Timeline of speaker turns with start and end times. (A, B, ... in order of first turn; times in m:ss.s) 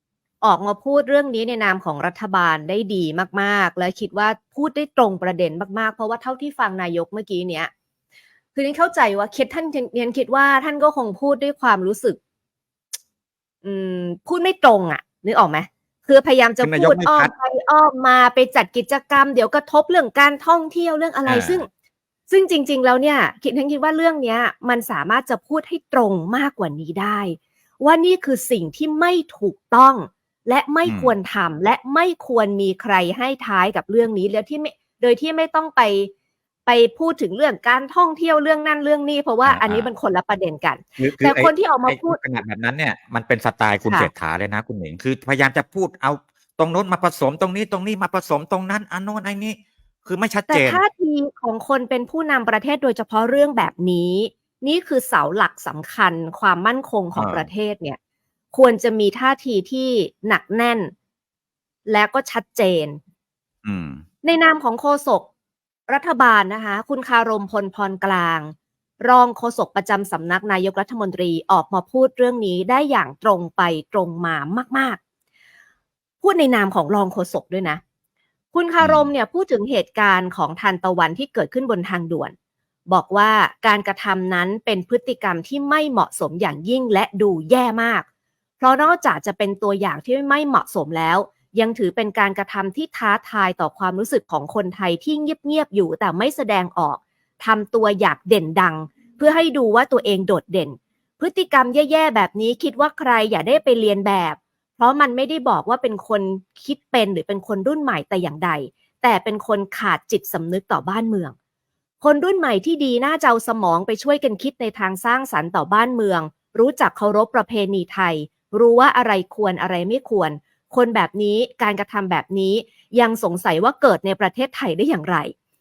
0:00.4-0:07.7 A
0:08.6-0:12.2 A
0:13.6-0:21.7 A
0:16.6-0:17.3 B
0:21.3-0:21.6 B
0:22.3-0:36.1 A
0:30.8-0:31.2 B
0:36.7-0:42.2 A
0:39.4-0:39.9 B
0:41.0-0:50.8 B
0:50.5-0:58.0 A
0:57.2-0:57.5 B
0:58.5-1:00.9 A
1:01.9-1:03.0 A
1:03.6-1:04.0 B
1:04.2-1:05.3 A
1:05.9-1:15.0 A
1:16.2-1:17.8 A
1:18.5-1:22.3 A
1:18.8-1:19.1 B
1:22.9-1:28.0 A
1:28.6-1:51.3 A
1:52.0-2:05.3 A